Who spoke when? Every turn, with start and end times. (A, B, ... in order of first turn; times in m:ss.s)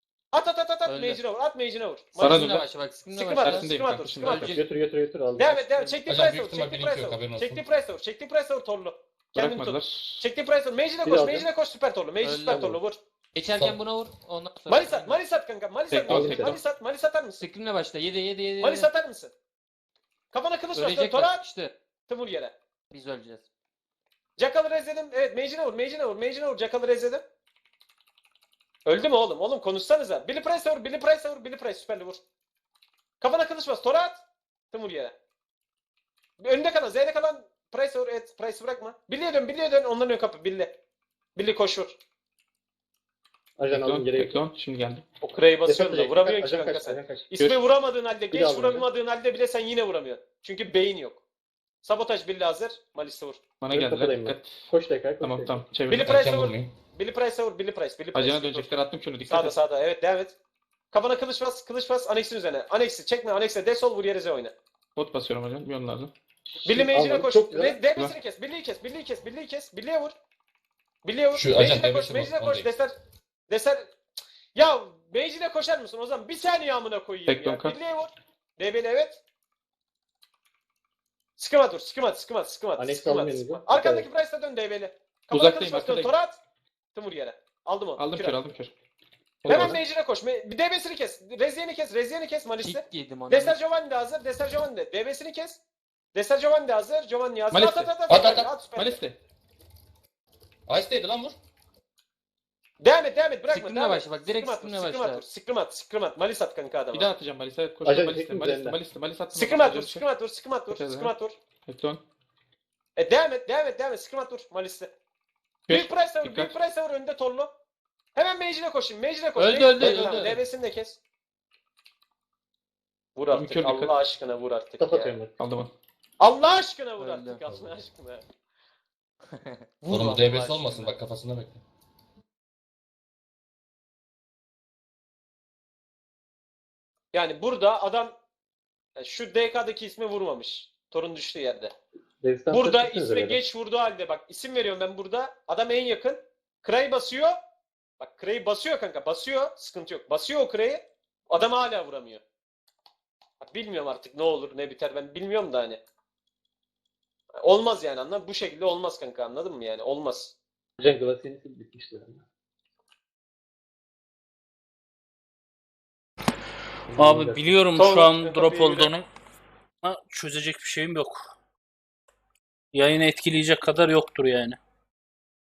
0:00.3-0:02.4 A
0:00.9-0:01.2 B
0:02.1-0:03.7 B
0:02.2-0:02.6 C
0:03.1-0:04.6 A
0:03.4-0:04.5 C
0:04.2-0:04.6 B
0:04.4-0:05.6 D
0:05.4-0:13.0 A
0:05.4-0:06.0 B
0:06.1-0:07.6 E
0:09.3-0:10.2 C
0:11.0-0:11.5 D
0:12.2-0:12.8 B
0:12.5-0:12.8 D
0:13.3-0:15.2 B
0:13.5-0:13.8 E
0:14.7-0:17.4 A
0:15.9-0:16.6 C
0:16.1-0:16.6 D
0:17.4-0:18.9 B
0:18.6-0:19.3 A
0:20.3-0:21.4 A
0:20.8-0:21.7 B
0:22.1-0:22.5 A
0:22.9-0:23.5 B
0:24.4-0:27.2 A
0:28.8-0:32.2 A
0:33.2-0:34.2 A
0:34.7-0:35.1 A
0:36.4-0:40.7 A
0:41.4-0:41.9 A
0:43.6-0:44.4 D
0:43.7-0:45.0 C
0:45.2-0:51.2 A
0:45.6-0:47.3 D
0:48.3-0:48.9 D
0:51.8-0:53.4 A
0:53.6-0:54.7 C
0:53.7-0:55.6 D
0:55.2-0:56.2 C
0:55.9-1:00.3 A
0:56.0-0:56.7 E
0:58.1-0:59.6 C
1:00.9-1:04.5 A
1:05.0-1:06.1 C
1:06.5-1:07.8 D
1:06.6-1:10.1 A
1:11.0-1:12.9 A
1:11.3-1:12.7 E
1:13.5-1:13.9 A
1:14.5-1:19.2 A
1:17.3-1:17.8 C
1:21.4-1:26.4 A
1:22.8-1:24.1 D
1:25.3-1:26.1 C
1:26.9-1:28.4 A
1:28.0-1:28.7 C
1:29.4-1:29.8 C
1:29.5-1:35.6 A
1:29.5-1:29.8 D
1:32.6-1:33.6 B
1:36.1-1:39.0 A
1:37.5-1:38.0 C
1:38.1-1:38.6 E
1:38.7-1:39.1 C
1:40.7-1:41.4 E
1:42.8-1:47.1 A
1:43.5-1:45.2 B
1:46.9-1:50.0 C
1:47.8-1:48.8 D
1:49.3-1:51.3 A
1:50.7-1:51.1 C
1:51.6-1:52.0 C
1:53.0-1:54.9 A
1:55.7-1:56.5 C
1:55.7-1:57.5 A
1:58.2-2:01.0 A
1:59.4-2:00.4 B
1:59.8-2:00.1 C
2:03.2-2:05.2 A
2:03.3-2:04.0 C
2:04.8-2:05.3 D
2:05.4-2:05.7 C
2:06.2-2:08.2 A
2:07.0-2:07.4 B
2:09.3-2:11.0 B
2:09.8-2:10.5 A
2:09.9-2:11.6 E
2:17.1-2:18.1 A
2:19.0-2:21.7 A
2:22.2-2:23.4 D
2:22.5-2:27.4 A
2:28.0-2:32.2 A
2:33.4-2:35.8 A
2:37.4-2:40.3 A
2:40.8-2:42.2 D
2:46.9-2:47.5 D
2:46.9-2:49.1 F
2:47.8-2:48.9 A
2:49.8-2:51.2 F
2:52.7-2:54.6 F